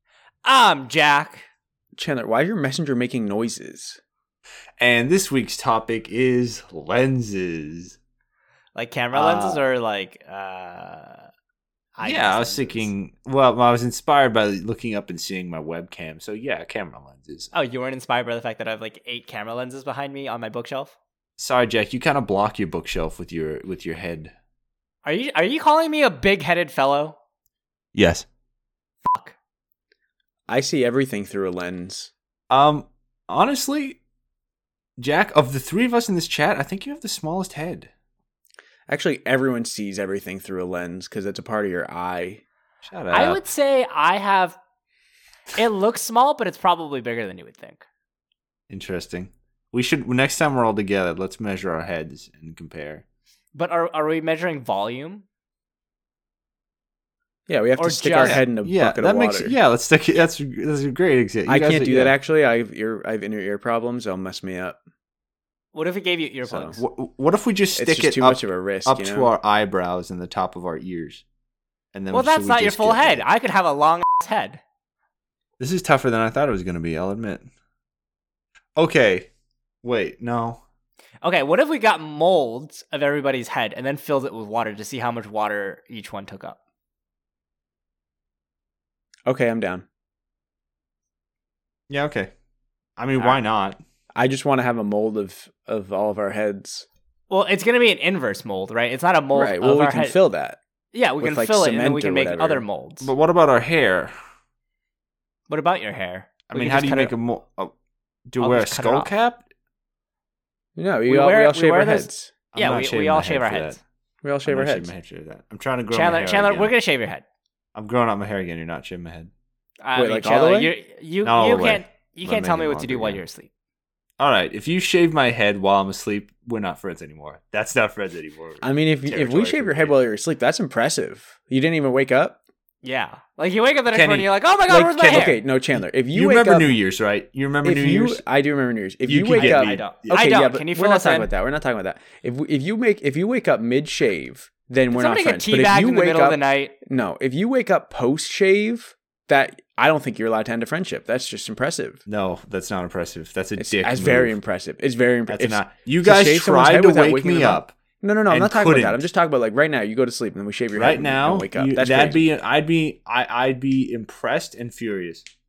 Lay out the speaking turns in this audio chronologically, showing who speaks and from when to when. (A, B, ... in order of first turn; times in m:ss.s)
0:00.4-0:01.5 A
0:01.9-0:04.0 B
0:04.8-0:08.0 C
0:08.7-0:11.3 A
0:09.1-0:09.6 B
0:12.0-0:12.9 A
0:12.0-0:17.5 C
0:17.5-0:21.0 A
0:21.4-0:24.3 C
0:25.0-0:27.2 A
0:27.9-0:28.2 C
0:29.0-0:29.3 A
0:30.5-0:32.1 B
0:32.5-0:34.0 C
0:35.0-0:37.9 C
0:38.9-0:42.4 B
0:42.8-0:43.4 C
0:43.1-0:44.6 A
0:45.5-0:47.8 A
0:48.7-0:53.0 C
0:53.5-0:55.2 A
0:57.5-0:59.6 B
0:57.8-0:58.4 A
0:58.2-1:02.1 C
1:01.4-1:04.8 B
1:05.7-1:06.8 A
1:06.5-1:06.8 B
1:06.8-1:11.2 C
1:07.8-1:09.3 B
1:11.9-1:13.2 C
1:12.1-1:14.6 A
1:15.6-1:17.5 C
1:18.8-1:19.3 C
1:19.8-1:20.6 C
1:21.2-1:26.6 A
1:29.2-1:29.8 B
1:31.9-1:32.3 C
1:33.0-1:33.8 C
1:34.2-1:36.8 B
1:37.3-1:40.2 A
1:39.3-1:40.6 B
1:40.9-1:43.1 A
1:41.2-1:42.6 B
1:43.0-1:44.1 C
1:45.5-1:47.1 A
1:46.5-1:47.7 C
1:48.3-1:49.4 C
1:48.4-1:49.1 A
1:50.8-1:52.3 B
1:51.0-1:53.8 A
1:52.5-1:53.8 C
1:54.2-1:54.9 B
1:54.4-1:56.7 C
1:55.9-1:57.2 A
1:57.7-1:59.3 C
1:59.8-2:03.5 A
1:59.9-2:00.7 B
2:01.2-2:03.2 C
2:04.2-2:10.0 C
2:08.6-2:12.4 B
2:12.8-2:15.4 A
2:13.9-2:18.2 C
2:15.0-2:16.8 B
2:17.6-2:32.0 B
2:19.0-2:20.2 C
2:19.4-2:21.3 A
2:24.9-2:26.7 A
2:32.1-2:34.4 C
2:33.6-2:42.2 B
2:35.3-2:37.7 C
2:38.3-2:39.0 C
2:40.7-2:45.2 C